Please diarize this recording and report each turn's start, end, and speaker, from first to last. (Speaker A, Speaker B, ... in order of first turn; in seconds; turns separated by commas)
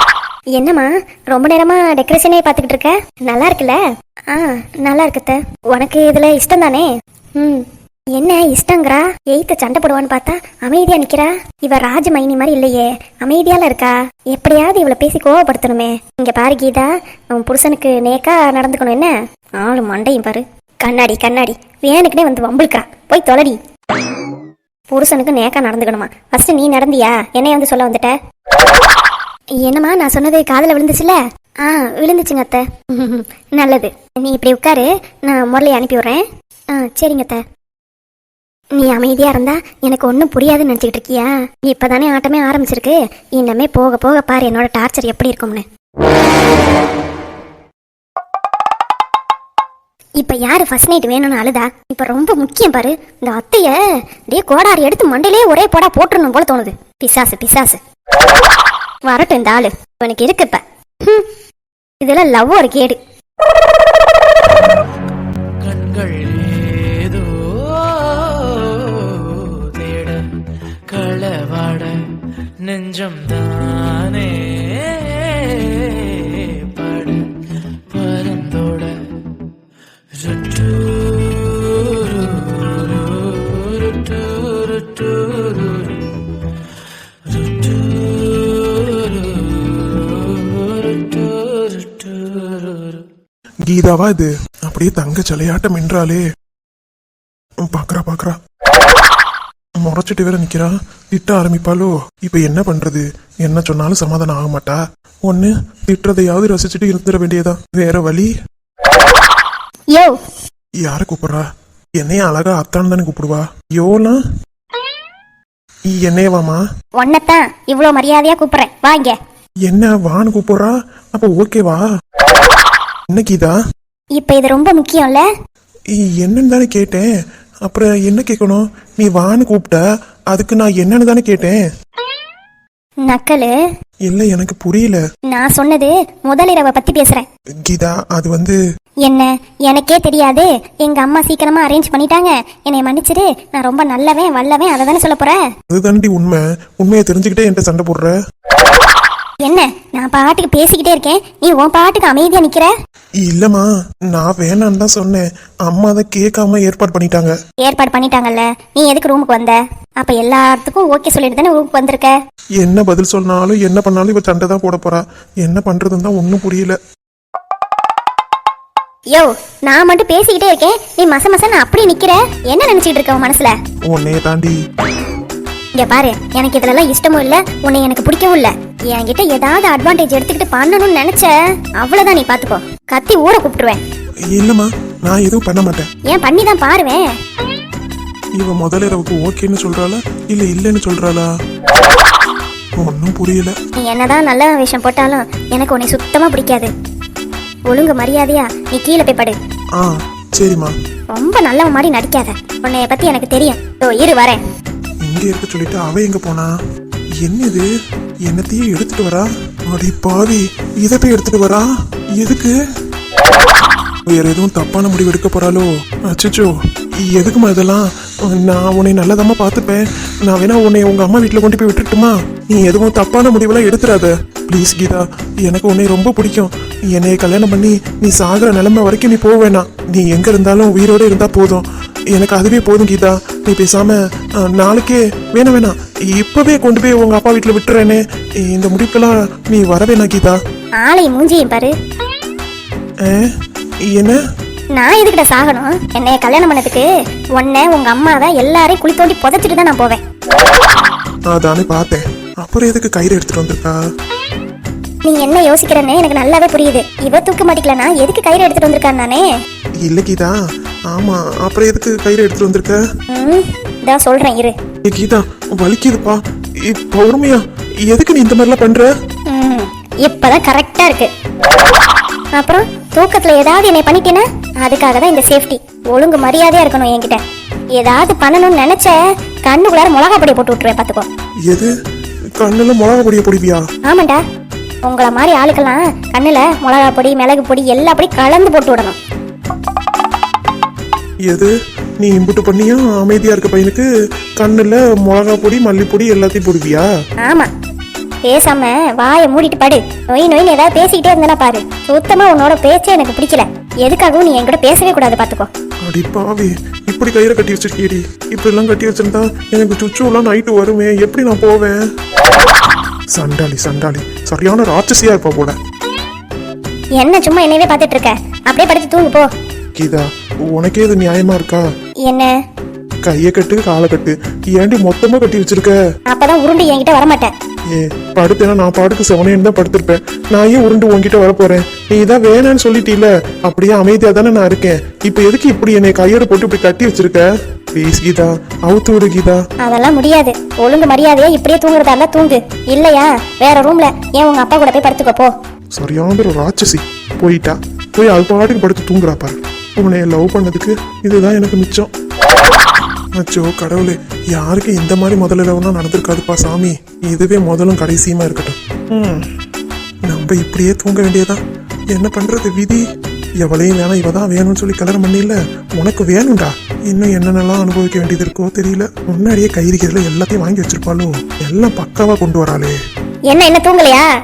Speaker A: 0.5-3.8, Speaker A: 4.3-23.6, Speaker A: 24.9-28.1, Speaker A: 29.6-36.2, Speaker A: 36.7-37.4, Speaker A: 38.7-45.6, Speaker A: 50.2-57.8, Speaker A: 59.1-61.3, Speaker A: 62.0-63.0, Speaker B: 65.6-70.2, Speaker B: 70.9-77.4, Speaker B: 77.9-79.1, Speaker B: 80.2-83.0, Speaker B: 84.1-85.9, Speaker B: 87.4-88.8, Speaker B: 90.6-92.4, Speaker C: 93.6-96.2, Speaker C: 97.7-98.4, Speaker C: 99.8-108.3, Speaker C: 110.8-111.4, Speaker C: 112.0-114.2, Speaker C: 115.9-116.6, Speaker A: 117.0-119.2, Speaker C: 119.7-121.8, Speaker C: 123.1-123.5, Speaker A: 124.2-125.2, Speaker C: 126.0-127.1, Speaker C: 127.6-129.8, Speaker C: 130.3-131.6, Speaker A: 133.0-133.5, Speaker C: 134.1-135.0, Speaker A: 135.3-137.2, Speaker C: 137.6-138.6, Speaker A: 139.0-145.4, Speaker C: 145.7-148.1, Speaker A: 149.4-152.7, Speaker C: 153.2-157.3, Speaker A: 157.6-162.1, Speaker C: 162.6-166.8, Speaker A: 169.1-173.5, Speaker C: 173.9-174.6, Speaker A: 175.7-183.8, Speaker C: 184.3-185.8, Speaker A: 186.1-187.1, Speaker C: 188.4-191.3, Speaker C: 192.8-193.5, Speaker A: 193.8-196.7, Speaker A: 197.7-199.4, Speaker C: 199.8-200.7, Speaker A: 201.1-204.4, Speaker C: 205.0-206.5, Speaker C: 207.2-207.7, Speaker C: 208.3-211.7, Speaker C: 212.2-212.5, Speaker C: 214.1-216.5, Speaker C: 217.0-240.4, Speaker A: 240.8-241.7, Speaker C: 243.0-243.3, Speaker A: 244.7-250.0, Speaker C: 251.3-253.8, Speaker A: 255.0-259.2, Speaker C: 259.8-260.3, Speaker C: 260.9-262.8, Speaker A: 263.1-264.5, Speaker C: 264.9-268.9, Speaker A: 269.3-271.1, Speaker A: 272.4-277.2, Speaker A: 277.7-281.1, Speaker C: 282.4-283.6, Speaker A: 283.9-284.2, Speaker A: 284.9-288.9, Speaker C: 291.3-293.9, Speaker C: 294.4-296.9, Speaker A: 297.2-297.5, Speaker A: 298.3-305.5, Speaker C: 305.9-311.8, Speaker C: 313.1-315.6, Speaker A: 317.0-319.3, Speaker C: 319.8-321.6, Speaker A: 322.0-322.3, Speaker C: 323.1-325.7, Speaker A: 326.1-327.3, Speaker C: 327.7-339.4, Speaker A: 339.6-345.3, Speaker C: 345.8-351.9, Speaker C: 353.2-359.2, Speaker C: 360.1-361.4, Speaker C: 361.9-362.8, Speaker C: 363.4-372.8, Speaker A: 373.3-374.1